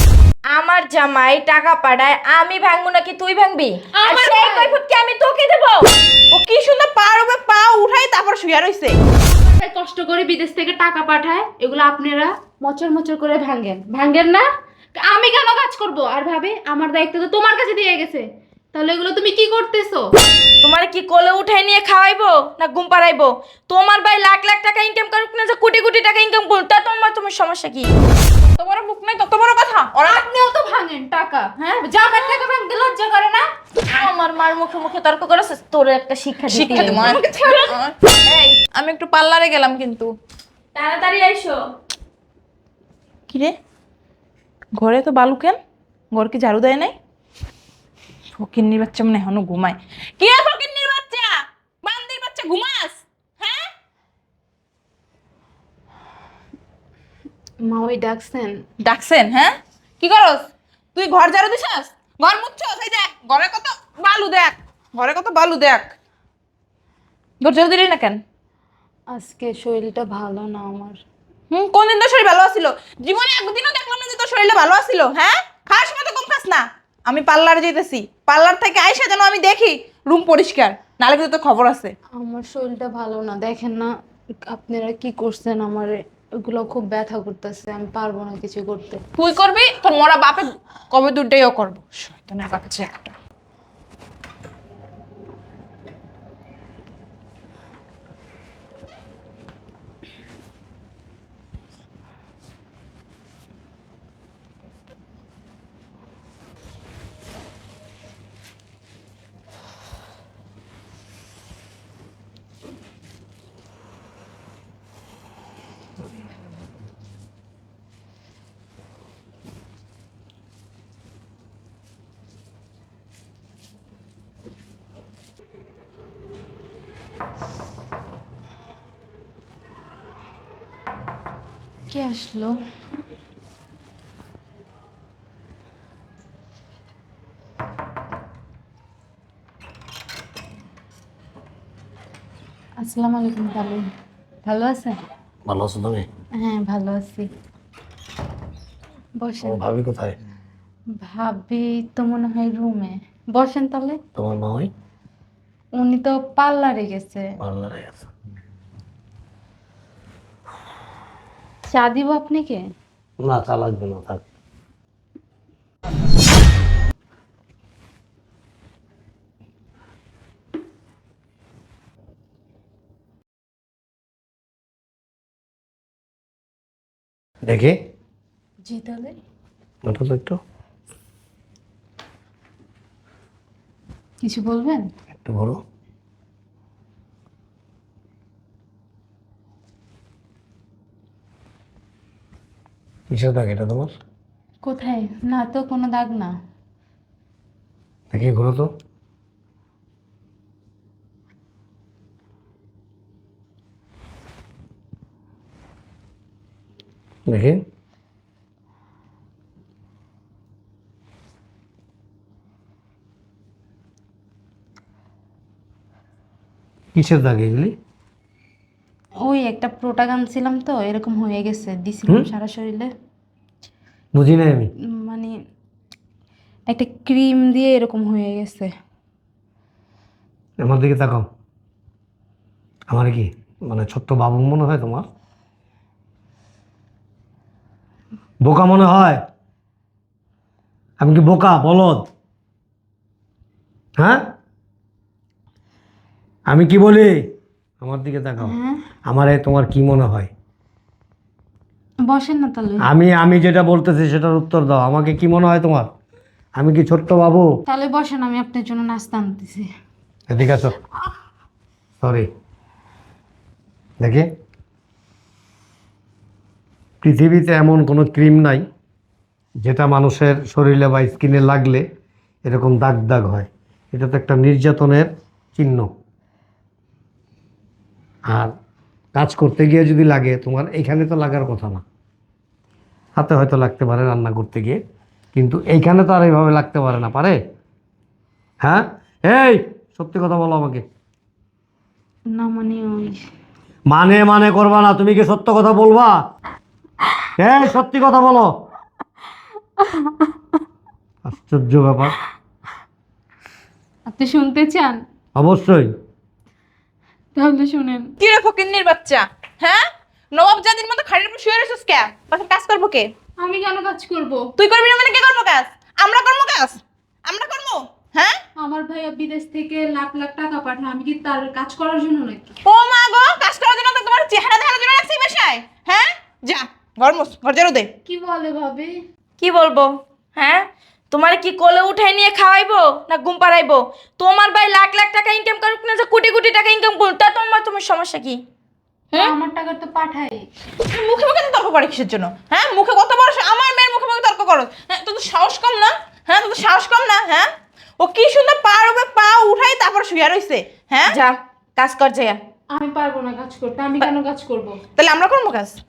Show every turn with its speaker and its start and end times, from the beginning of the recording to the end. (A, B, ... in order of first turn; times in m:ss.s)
0:00.5-0:05.9 A
0:03.9-0:04.8 B
0:06.3-0:09.0 C
0:09.2-0:20.0 B
0:20.6-0:27.9 A
0:28.5-0:30.2 C
0:30.0-0:33.4 B
0:33.9-0:37.2 A
0:36.5-0:40.1 C
0:36.7-0:37.7 B
0:40.7-0:41.6 A
0:43.3-0:43.6 C
0:44.7-0:45.6 C
0:46.1-0:46.9 C
0:48.3-0:53.7 C
0:57.6-0:58.6 B
0:58.8-1:05.9 C
1:07.4-1:08.2 C
1:09.1-1:11.0 B
1:11.5-1:21.9 C
1:22.2-1:23.9 B
1:24.5-1:29.0 B
1:29.1-1:33.1 C
2:11.9-2:12.6 B
2:22.8-2:23.8 B
2:24.4-2:25.0 B
2:25.4-2:26.1 D
2:26.4-2:27.3 B
2:29.2-2:29.6 B
2:29.4-2:30.1 D
2:31.0-2:34.0 B
2:34.2-2:34.7 D
2:35.8-2:37.3 B
2:37.4-2:38.1 D
2:41.7-2:42.6 B
2:43.2-2:44.2 D
2:57.4-2:57.8 D
2:58.6-2:59.2 B
2:59.8-3:00.4 D
3:04.2-3:04.9 B
3:05.2-3:05.6 D
3:13.1-3:13.9 D
3:14.6-3:16.3 B
3:18.1-3:18.7 D
3:27.3-3:27.6 D
3:36.9-3:37.7 D
3:39.2-3:42.9 B
3:44.1-3:44.7 D
3:45.0-3:45.3 B
3:46.7-3:48.7 B
3:50.6-3:51.3 D
3:52.9-3:55.0 D
3:58.4-3:59.2 D
4:01.0-4:02.1 D
4:06.5-4:08.5 D
4:08.4-4:08.8 B
4:09.0-4:10.3 D
4:12.0-4:12.9 B
4:12.8-4:15.9 D
4:16.6-4:17.5 D
4:17.7-4:19.7 B
4:20.3-4:20.7 D
4:22.0-4:22.3 D
4:24.0-4:24.3 D
4:27.0-4:28.6 D
4:29.6-4:31.8 D
4:32.4-4:35.9 D
4:39.1-4:41.8 D
4:43.2-4:44.8 D
4:45.3-4:47.4 D
4:48.6-4:50.8 D
4:52.3-4:53.2 B
4:53.9-4:56.2 D
4:57.4-4:58.5 D
4:59.8-5:00.3 B
5:01.2-5:02.1 D
5:04.1-5:05.0 B
5:05.4-5:05.9 D
5:07.3-5:08.1 B
5:08.2-5:13.1 C
5:13.4-5:14.4 B
5:14.6-5:18.4 C
5:18.6-5:22.5 B
5:22.6-5:27.9 C
5:28.0-5:28.9 B
5:29.4-5:38.4 A
5:39.2-5:40.4 B
5:40.9-5:51.2 C
5:51.1-5:52.4 A
5:52.7-5:54.8 B
5:55.0-5:55.8 C